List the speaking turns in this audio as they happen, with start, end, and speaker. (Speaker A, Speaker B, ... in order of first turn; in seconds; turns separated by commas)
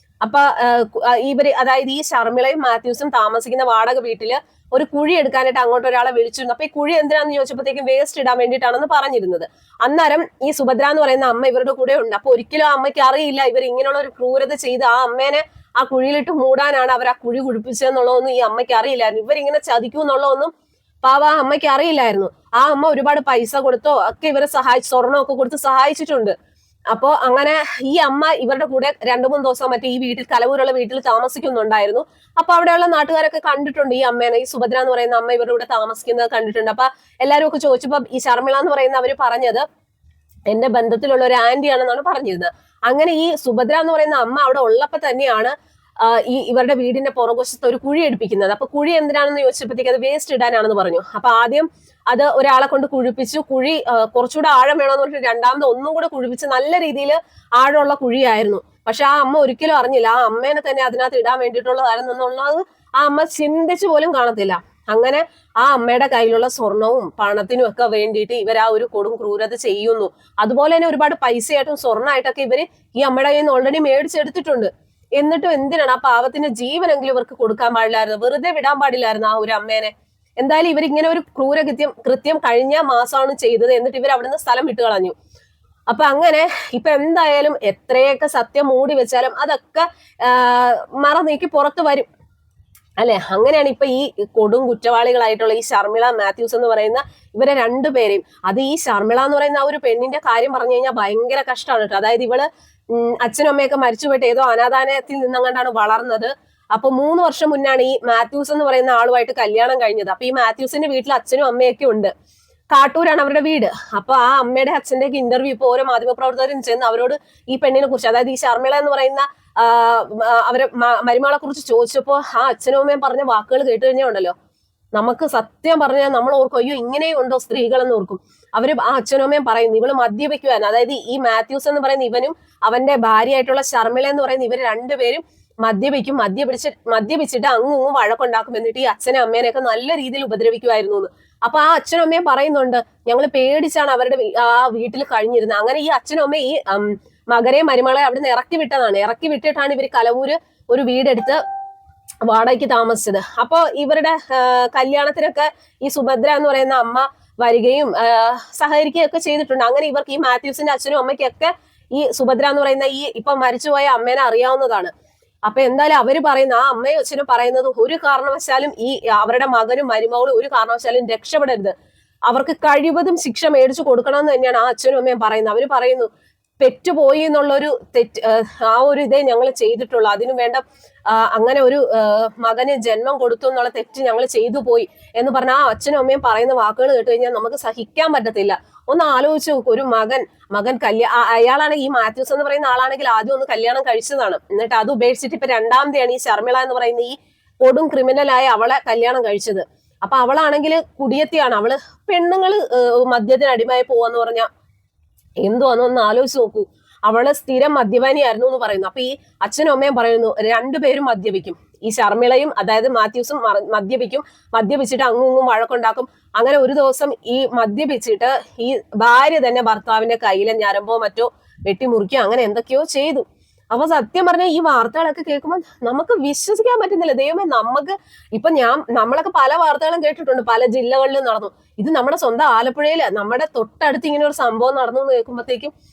Speaker A: 0.2-20.5, Speaker A: 21.0-26.4, Speaker A: 26.9-39.6, Speaker A: 40.5-85.2, Speaker A: 85.9-92.1, Speaker A: 93.0-112.1, Speaker A: 112.7-124.3, Speaker A: 125.0-151.4, Speaker A: 152.3-164.9, Speaker A: 165.5-171.7, Speaker A: 172.3-176.1, Speaker A: 176.6-204.5, Speaker A: 205.4-235.7